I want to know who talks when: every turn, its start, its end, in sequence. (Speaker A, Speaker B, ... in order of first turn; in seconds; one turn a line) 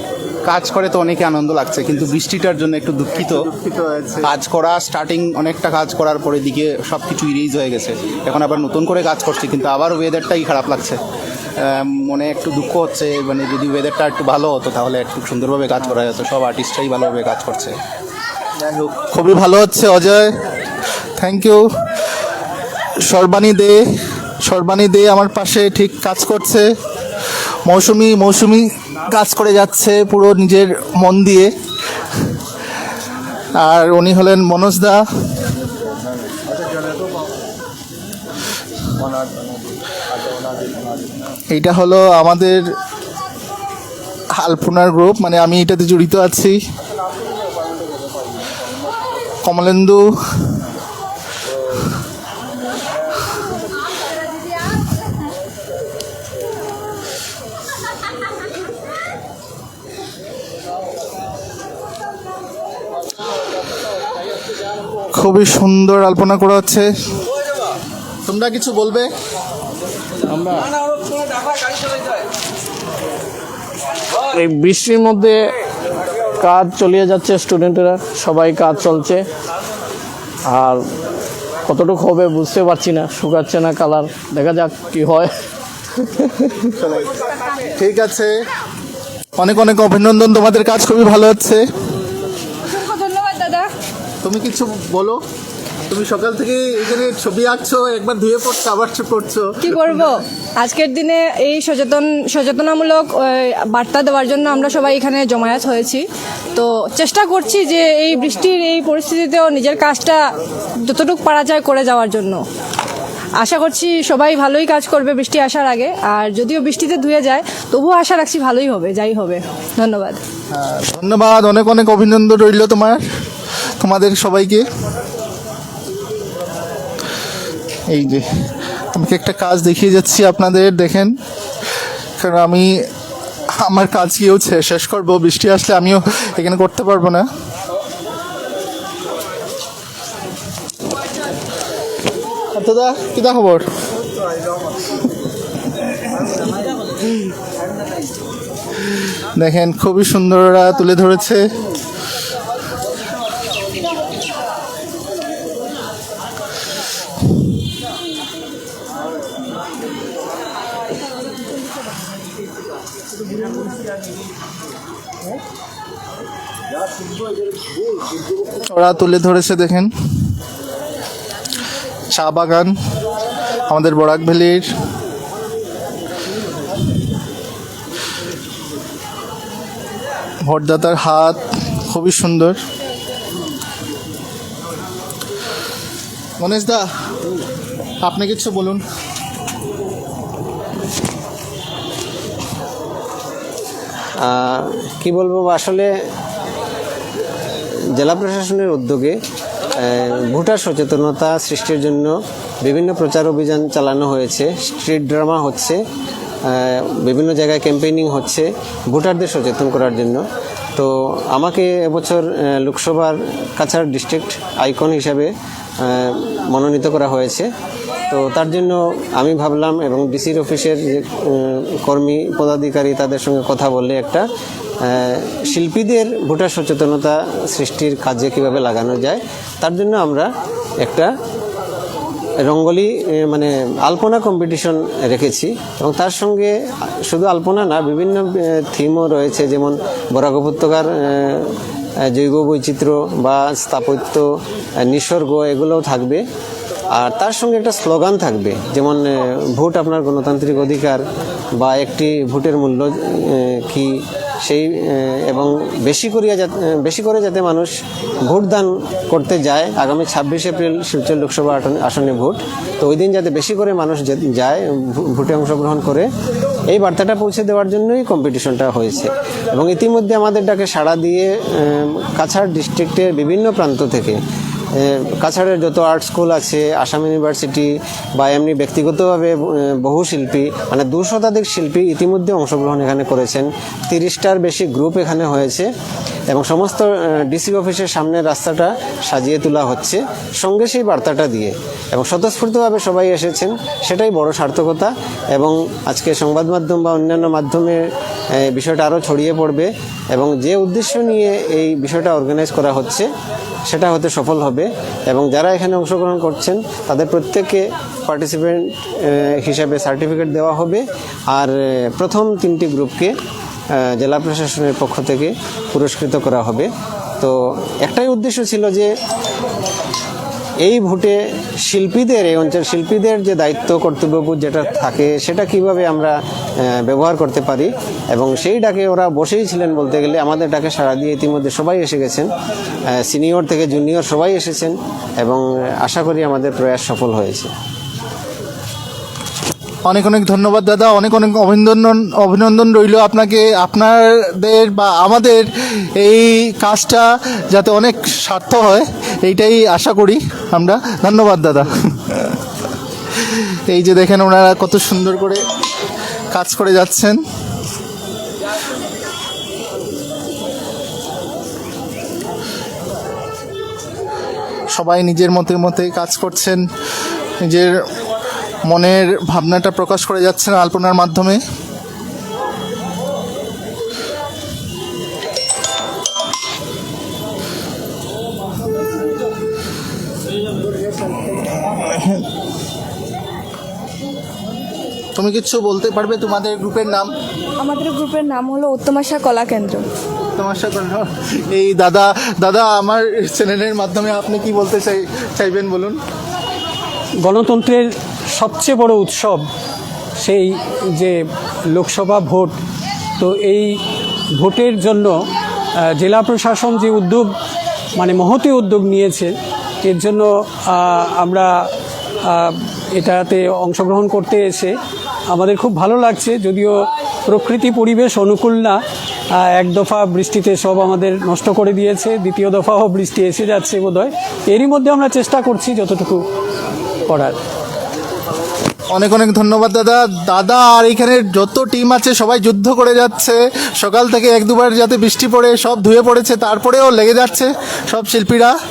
Speaker A: 0.5-3.5
Speaker B: 3.2-4.3
Speaker A: 4.2-11.0
Speaker A: 11.6-17.8
Speaker A: 18.6-18.9
Speaker B: 19.1-20.3
Speaker B: 21.2-21.7
Speaker B: 23.1-23.8
Speaker B: 24.4-26.7
Speaker B: 27.7-31.5
Speaker B: 33.6-35.0
Speaker B: 41.5-42.6
Speaker B: 44.4-46.6
Speaker B: 49.4-50.0
Speaker B: 65.1-66.9
Speaker B: 68.3-69.1
Speaker C: 74.3-75.4
Speaker C: 76.4-79.2
Speaker C: 80.5-80.8
Speaker C: 81.7-85.3
Speaker B: 86.8-87.1
Speaker B: 87.8-88.3
Speaker B: 89.4-91.6
Speaker D: 92.7-93.7
Speaker B: 94.2-95.2
Speaker B: 95.9-100.1
Speaker D: 99.6-110.3
Speaker D: 110.8-112.4
Speaker D: 113.4-120.2
Speaker B: 120.5-123.0
Speaker B: 123.8-124.7
Speaker B: 127.9-128.3
Speaker B: 128.9-131.2
Speaker B: 132.2-132.7
Speaker B: 133.6-137.3
Speaker B: 142.6-143.7
Speaker B: 149.4-151.5
Speaker B: 168.7-169.9
Speaker B: 172.1-172.8
Speaker B: 173.7-174.7
Speaker B: 180.4-182.6
Speaker B: 186.4-186.8
Speaker B: 188.0-188.8
Speaker E: 194.2-195.9
Speaker E: 197.9-199.2
Speaker E: 199.8-202.1
Speaker E: 202.6-205.8
Speaker E: 206.5-210.2
Speaker E: 210.8-217.5
Speaker E: 218.1-224.2
Speaker E: 224.8-230.3
Speaker E: 230.8-231.1
Speaker E: 232.4-236.5
Speaker E: 237.1-241.5
Speaker E: 242.1-244.3
Speaker E: 244.8-246.2
Speaker E: 246.9-251.0
Speaker E: 251.6-257.7
Speaker E: 258.2-266.1
Speaker E: 266.7-274.2
Speaker E: 274.8-285.7
Speaker E: 286.3-297.8
Speaker E: 298.4-303.1
Speaker E: 303.7-313.1
Speaker E: 313.7-318.9
Speaker E: 320.6-332.3
Speaker E: 332.9-337.5
Speaker B: 339.9-352.3
Speaker B: 353.1-355.4
Speaker B: 356.3-357.2
Speaker B: 364.7-366.6
Speaker B: 367.4-367.7
Speaker B: 368.7-371.4
Speaker B: 385.2-387.1
Speaker F: 387.6-389.8
Speaker B: 390.4-396.0
Speaker G: 397.2-399.5
Speaker G: 400.2-401.2
Speaker G: 401.7-402.5
Speaker G: 403.2-403.8
Speaker G: 404.4-405.2
Speaker G: 405.9-407.3
Speaker G: 408.0-411.5
Speaker G: 412.2-414.8
Speaker G: 415.3-418.8
Speaker G: 419.4-426.2
Speaker G: 427.1-427.4
Speaker B: 428.9-438.6